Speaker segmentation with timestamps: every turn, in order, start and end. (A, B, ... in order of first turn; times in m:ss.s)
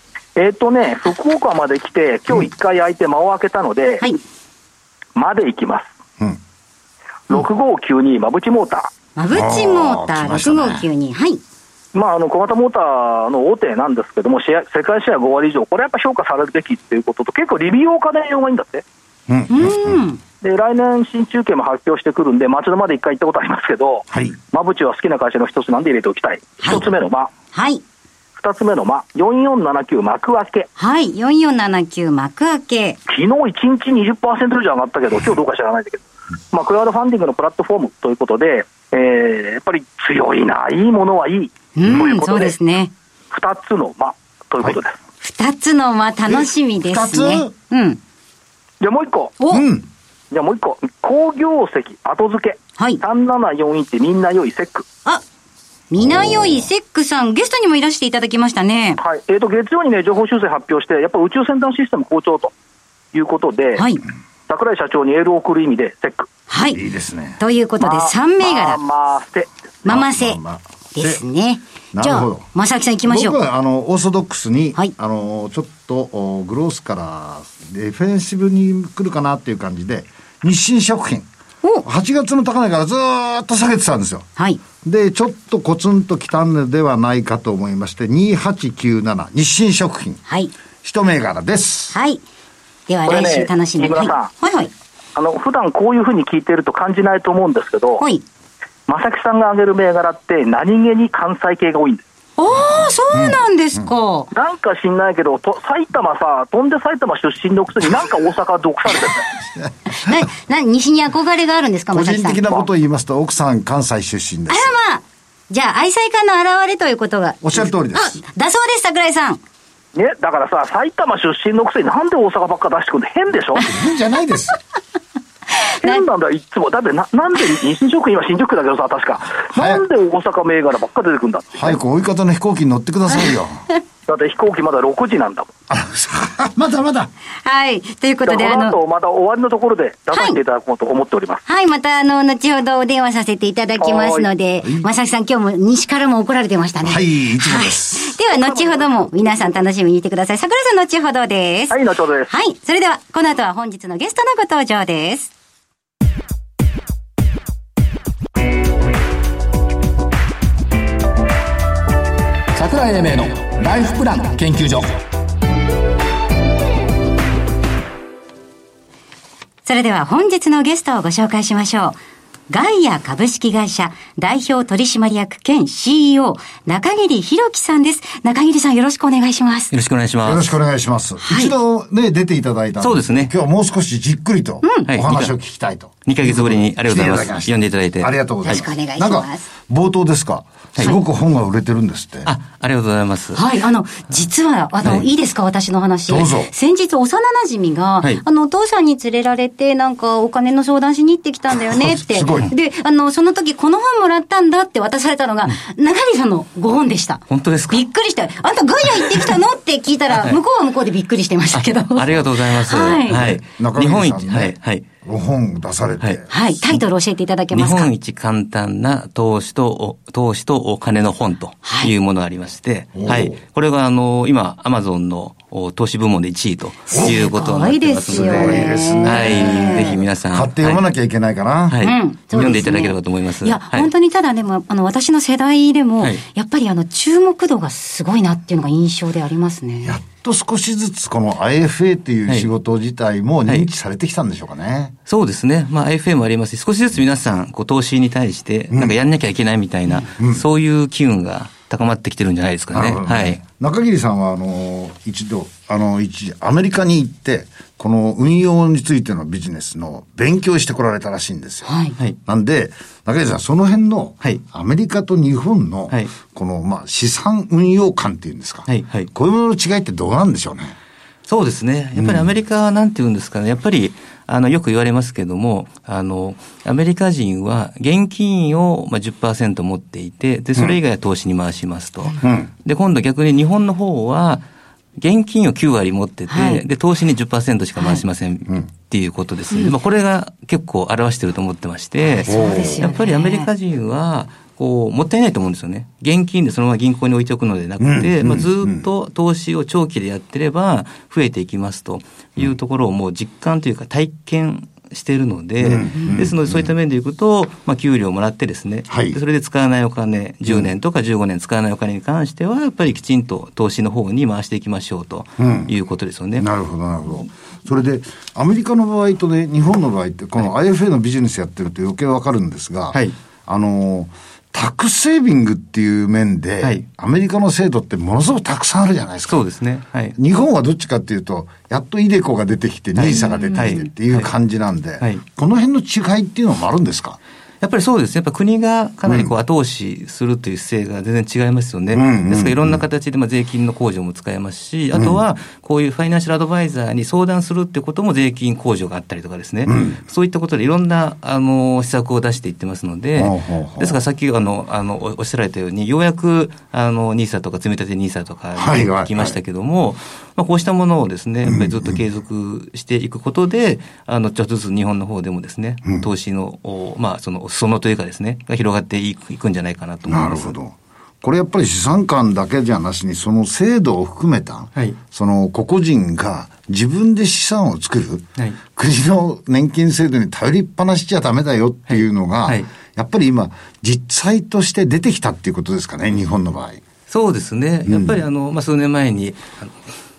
0:00.4-0:04.0 A
0:05.2-0:05.9 A
0:07.3-0:08.9 A
0:09.2-0:11.4 B
0:09.3-0:10.9 C
0:11.9-0:18.8 A
0:19.3-0:20.0 C
0:19.5-0:20.2 B
0:20.4-0:27.3 A
0:24.1-0:24.4 C
0:26.6-0:26.8 B
0:27.5-0:27.8 B
0:28.4-0:30.7 A
0:30.8-0:33.0 B
0:33.1-0:42.6 A
0:41.8-0:42.9 B
0:43.3-0:45.0 A
0:45.2-0:48.0 B
0:46.3-0:47.5 C
0:48.8-0:49.4 A
0:49.4-0:49.7 B
0:49.5-0:49.9 C
0:50.3-0:54.9 A
0:55.9-0:59.0 B
0:56.0-0:56.7 C
0:59.0-1:02.5 A
1:03.1-1:03.8 A
1:03.8-1:04.0 B
1:04.5-1:06.3 A
1:06.5-1:06.8 B
1:06.7-1:07.4 C
1:07.4-1:08.8 B
1:07.8-1:09.5 A
1:09.8-1:10.4 B
1:09.8-1:11.2 C
1:10.9-1:13.4 B
1:11.9-1:12.5 C
1:13.1-1:21.3 C
1:21.8-1:24.3 C
1:24.8-1:30.2 C
1:30.3-1:30.5 B
1:30.8-1:32.0 C
1:31.9-1:32.2 B
1:32.9-1:34.7 B
1:33.1-1:34.3 A
1:35.2-1:38.0 A
1:38.0-1:38.2 B
1:38.9-1:42.0 A
1:42.4-1:44.3 B
1:42.6-1:43.9 C
1:44.3-1:49.3 A
1:49.6-1:50.2 C
1:50.0-1:52.4 B
1:51.9-1:54.8 C
1:54.5-1:59.4 B
1:57.4-1:58.2 C
2:00.0-2:03.7 A
2:03.6-2:04.6 C
2:05.6-2:06.0 B
2:05.8-2:11.8 A
2:09.5-2:09.8 C
2:11.5-2:13.7 C
2:14.1-2:15.5 A
2:15.7-2:17.1 C
2:17.4-2:18.8 B
2:18.3-2:21.4 A
2:20.1-2:20.4 B
2:21.5-2:31.8 B
2:23.8-2:24.3 A
2:24.6-2:24.9 C
2:26.8-2:28.2 C
2:28.3-2:29.1 A
2:31.7-2:32.3 A
2:32.3-2:35.3 B
2:42.6-2:45.0 D
2:49.6-2:52.0 B
2:52.5-2:59.7 B
2:59.7-3:00.5 E
3:00.2-3:12.3 C
3:01.2-3:01.5 B
3:02.8-3:03.3 E
3:04.6-3:04.9 B
3:04.9-3:05.3 E
3:06.1-3:08.6 E
3:08.4-3:09.5 B
3:12.2-3:13.4 E
3:13.3-3:33.4 B
3:16.1-3:16.5 C
3:21.7-3:22.5 C
3:27.3-3:27.8 E
3:30.1-3:30.4 E
3:31.5-3:34.9 E
3:33.3-3:36.3 C
3:36.3-3:37.9 B
3:37.5-3:50.8 E
3:41.6-3:41.9 B
3:43.0-3:43.4 C
3:46.9-3:50.0 B
3:46.9-3:47.2 C
3:48.1-3:51.8 C
3:51.7-3:53.9 E
3:51.8-4:00.0 B
3:52.4-3:52.6 C
3:59.8-4:05.0 C
4:05.1-4:13.4 E
4:10.2-4:10.4 C
4:12.7-4:30.8 C
4:21.6-4:22.0 B
4:28.7-4:29.1 E
4:31.3-4:44.4 E
4:32.0-4:32.3 C
4:42.2-4:42.5 C
4:45.0-5:16.5 E
4:46.3-4:46.6 B
4:47.8-4:48.0 B
4:52.0-4:53.5 B
4:52.3-4:52.8 C
4:57.8-4:58.9 C
5:05.6-5:06.7 C
5:08.9-5:09.2 C
5:15.4-5:15.7 C
5:16.4-5:29.4 C
5:29.3-5:30.2 E
5:30.2-5:37.2 C
5:33.0-5:34.3 E
5:33.1-5:33.8 B
5:37.6-6:10.6 E
5:39.1-5:39.3 C
5:41.9-5:42.8 C
5:44.9-5:45.2 C
5:49.7-5:50.0 C
5:53.2-5:54.0 C
5:58.6-5:59.4 C
6:01.4-6:02.0 C
6:10.1-6:26.8 C
6:21.9-6:22.7 E
6:27.1-6:29.8 E
6:27.9-6:28.2 C